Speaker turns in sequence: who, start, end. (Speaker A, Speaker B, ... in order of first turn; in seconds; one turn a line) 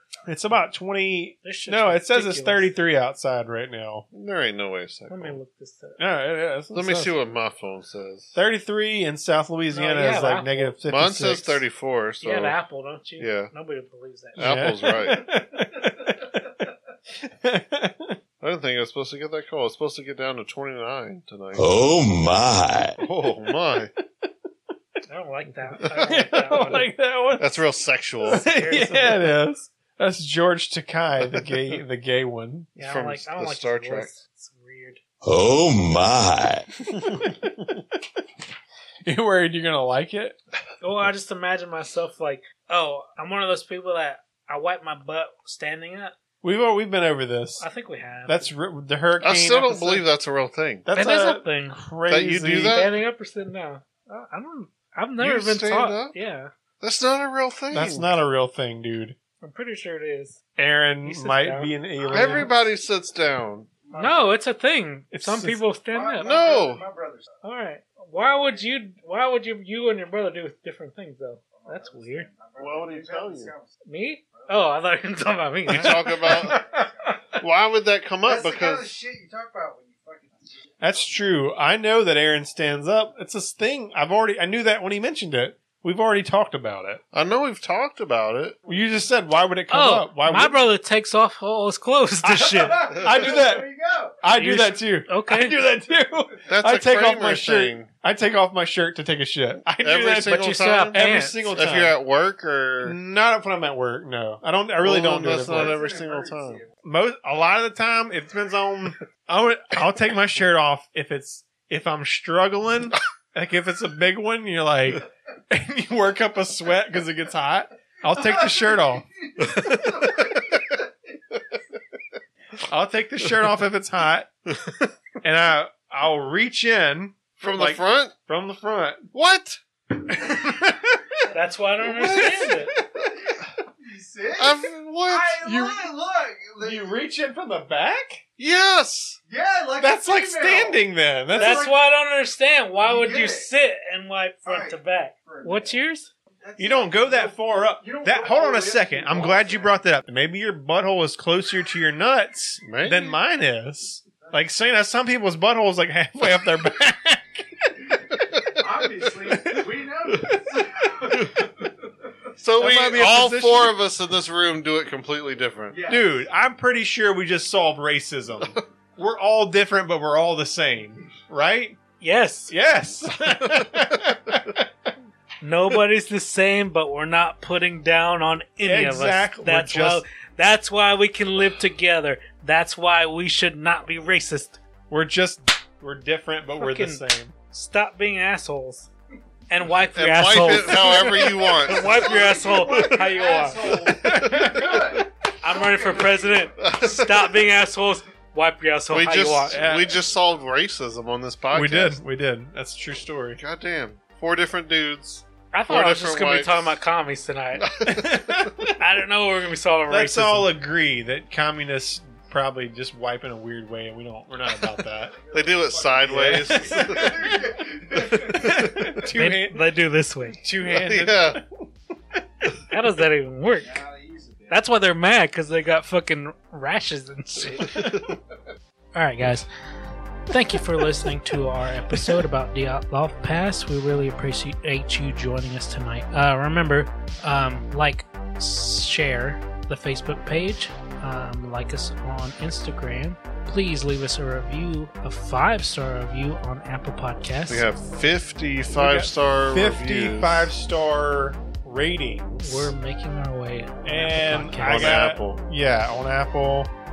Speaker A: 0.3-4.1
Speaker B: 1.4-2.7
Speaker C: 4.1-5.4
Speaker B: 5.1-6.0
Speaker A: 6.0-7.2
Speaker C: 6.7-8.4
Speaker A: 8.3-11.6
Speaker B: 9.7-10.8
Speaker C: 10.9-12.6
Speaker B: 12.2-14.8
Speaker C: 13.2-13.5
Speaker C: 14.4-15.2
Speaker A: 14.4-18.2
Speaker C: 18.4-21.7
Speaker D: 21.6-23.0
Speaker C: 23.0-23.9
Speaker B: 25.1-26.9
Speaker A: 25.7-27.6
Speaker C: 27.4-28.4
Speaker A: 28.2-32.7
Speaker B: 28.4-29.3
Speaker B: 32.8-35.0
Speaker C: 32.8-34.1
Speaker D: 35.2-36.7
Speaker A: 37.0-38.0
Speaker A: 39.0-40.4
Speaker B: 40.8-46.1
Speaker A: 46.4-47.6
Speaker B: 47.6-48.4
Speaker A: 48.3-50.0
Speaker C: 49.2-50.9
Speaker A: 50.9-52.8
Speaker B: 51.0-51.8
Speaker C: 52.1-53.0
Speaker B: 52.6-56.5
Speaker C: 55.2-56.2
Speaker C: 56.8-58.2
Speaker A: 57.7-59.2
Speaker B: 59.4-60.4
Speaker A: 60.6-62.5
Speaker B: 61.0-61.7
Speaker C: 62.1-63.7
Speaker E: 63.9-64.3
Speaker B: 63.9-66.3
Speaker A: 65.1-65.6
Speaker E: 65.9-67.3
Speaker C: 66.2-66.8
Speaker B: 67.4-72.3
Speaker E: 71.5-73.8
Speaker C: 72.6-73.5
Speaker B: 73.8-76.4
Speaker E: 74.3-74.7
Speaker C: 75.7-76.6
Speaker E: 76.3-77.2
Speaker A: 76.5-76.8
Speaker C: 77.4-78.9
Speaker E: 78.2-81.1
Speaker A: 80.8-87.0
Speaker C: 87.1-88.6
Speaker A: 88.7-90.6
Speaker B: 89.7-92.8
Speaker A: 92.3-93.7
Speaker E: 92.3-94.3
Speaker A: 94.2-100.4
Speaker B: 94.3-95.6
Speaker C: 96.5-97.9
Speaker C: 99.8-103.0
Speaker B: 100.3-101.4
Speaker A: 100.9-102.0
Speaker A: 102.8-105.8
Speaker C: 104.8-106.6
Speaker E: 105.4-106.7
Speaker A: 106.8-119.1
Speaker E: 118.1-120.8
Speaker C: 119.4-120.7
Speaker A: 122.7-124.3
Speaker C: 124.5-124.9
Speaker A: 125.2-129.1
Speaker C: 127.4-128.1
Speaker C: 129.1-129.6
Speaker A: 130.2-131.0
Speaker B: 131.3-132.7
Speaker A: 131.8-132.8
Speaker E: 133.1-137.0
Speaker C: 134.4-135.4
Speaker A: 135.4-135.9
Speaker A: 136.6-138.2
Speaker C: 138.4-139.2
Speaker E: 139.3-141.8
Speaker A: 139.8-141.7
Speaker B: 141.4-146.1
Speaker E: 142.8-143.5
Speaker E: 144.4-145.8
Speaker E: 146.4-149.7
Speaker A: 146.6-157.9
Speaker C: 152.6-153.2
Speaker E: 158.0-161.7
Speaker A: 159.2-161.2
Speaker C: 160.1-160.4
Speaker C: 161.1-161.5
Speaker C: 162.4-165.8
Speaker A: 162.6-163.8
Speaker E: 165.7-166.2
Speaker A: 165.9-171.8
Speaker B: 172.0-172.5
Speaker A: 172.5-174.7
Speaker B: 175.4-184.6
Speaker A: 178.6-180.0
Speaker A: 184.9-187.3
Speaker B: 186.6-188.9
Speaker B: 189.5-193.7
Speaker C: 189.9-192.1
Speaker E: 191.6-196.6
Speaker C: 192.7-193.0
Speaker A: 193.8-195.1
Speaker C: 194.1-194.8
Speaker B: 195.4-199.6
Speaker C: 196.6-197.4
Speaker C: 198.9-202.0
Speaker A: 199.5-200.0
Speaker A: 201.5-203.4
Speaker C: 203.4-206.8
Speaker B: 205.5-207.6
Speaker C: 207.6-208.5
Speaker A: 207.8-208.8
Speaker B: 208.8-210.5
Speaker A: 209.9-215.2
Speaker E: 214.9-218.4
Speaker C: 215.3-217.3
Speaker A: 216.0-219.8
Speaker C: 217.9-219.0
Speaker B: 219.2-220.4
Speaker A: 220.4-221.5
Speaker C: 220.7-221.4
Speaker B: 222.7-223.8
Speaker E: 223.6-224.7
Speaker B: 224.5-227.8
Speaker C: 227.6-228.0
Speaker B: 228.9-229.5
Speaker B: 230.3-247.7
Speaker A: 230.3-231.1
Speaker A: 231.9-232.3
Speaker C: 247.5-250.5
Speaker A: 248.8-252.7
Speaker B: 252.4-255.0
Speaker A: 253.8-256.7
Speaker C: 254.6-255.4